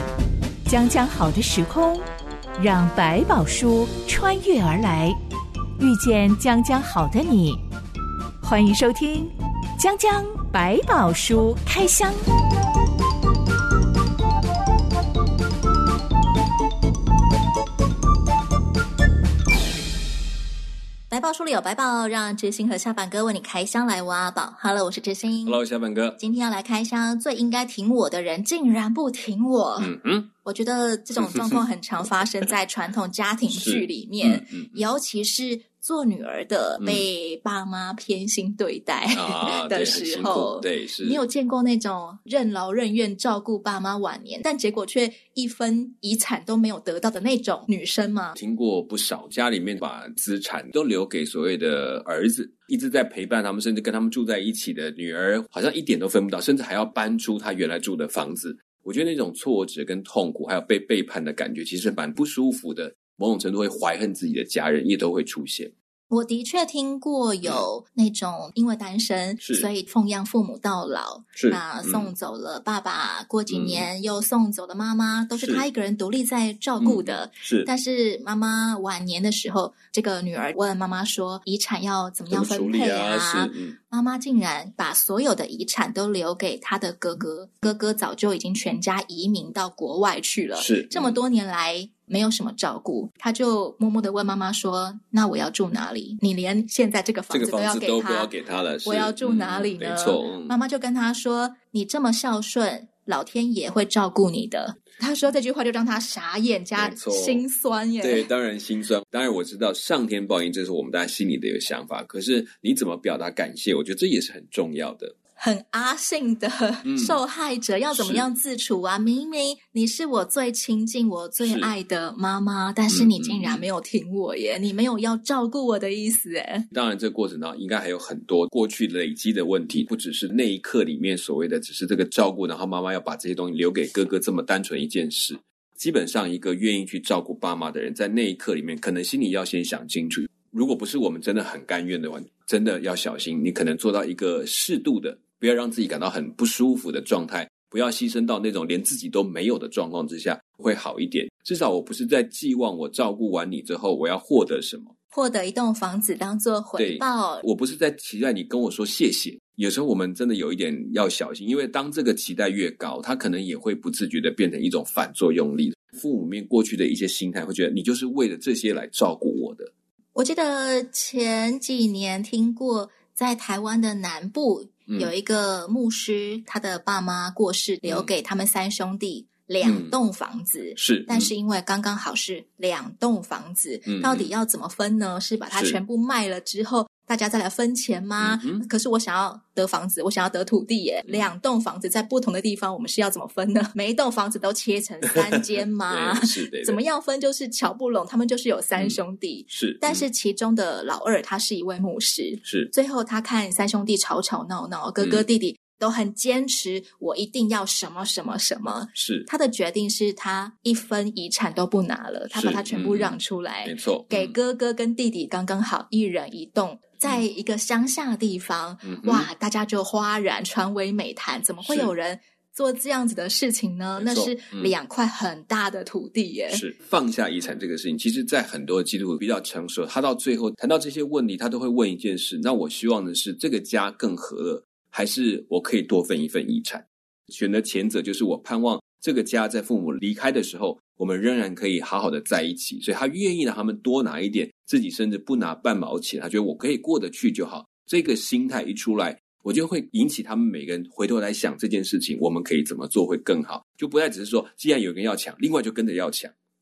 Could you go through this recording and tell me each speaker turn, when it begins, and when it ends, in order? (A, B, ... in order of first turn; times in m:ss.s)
0:00.6-0:02.0 A
0:02.6-0:05.2 A
0:05.8-0:07.6 A
0:08.4-0:12.2 A
0:21.1-0:25.6 B
0:25.4-0:26.2 C
0:26.2-0:29.9 B
0:29.8-0:30.3 C
0:30.4-0:48.4 B
0:31.2-0:31.6 C
0:33.5-0:34.8 C
0:39.2-0:41.2 C
0:48.4-1:05.7 C
1:06.1-1:38.3 B
1:09.4-1:09.7 C
1:11.4-1:12.1 C
1:13.5-1:13.9 C
1:15.4-1:15.6 C
1:16.8-1:17.7 C
1:22.3-1:23.8 C
1:30.6-1:31.2 C
1:37.3-1:40.6 C
1:38.8-1:48.3 B
1:46.8-1:47.4 C
1:48.0-1:55.1 C
1:55.4-2:06.7 B
1:56.8-1:57.2 C
1:57.9-1:58.2 C
2:01.4-2:01.7 C
2:02.9-2:03.6 C
2:06.7-2:34.9 C
2:35.1-2:37.5 B
2:36.8-2:49.7 C
2:50.2-3:46.6 B
2:57.8-2:58.1 C
2:59.6-2:59.9 C
3:00.8-3:01.3 C
3:03.9-3:04.3 C
3:05.5-3:05.8 C
3:08.2-3:08.7 C
3:11.1-3:11.3 C
3:15.9-3:16.8 C
3:19.5-3:20.0 C
3:22.4-3:22.7 C
3:25.0-3:25.2 C
3:29.0-3:29.3 C
3:32.3-3:34.4 C
3:38.8-3:39.3 C
3:41.6-3:41.9 C
3:44.0-3:44.7 C
3:46.5-4:16.3 C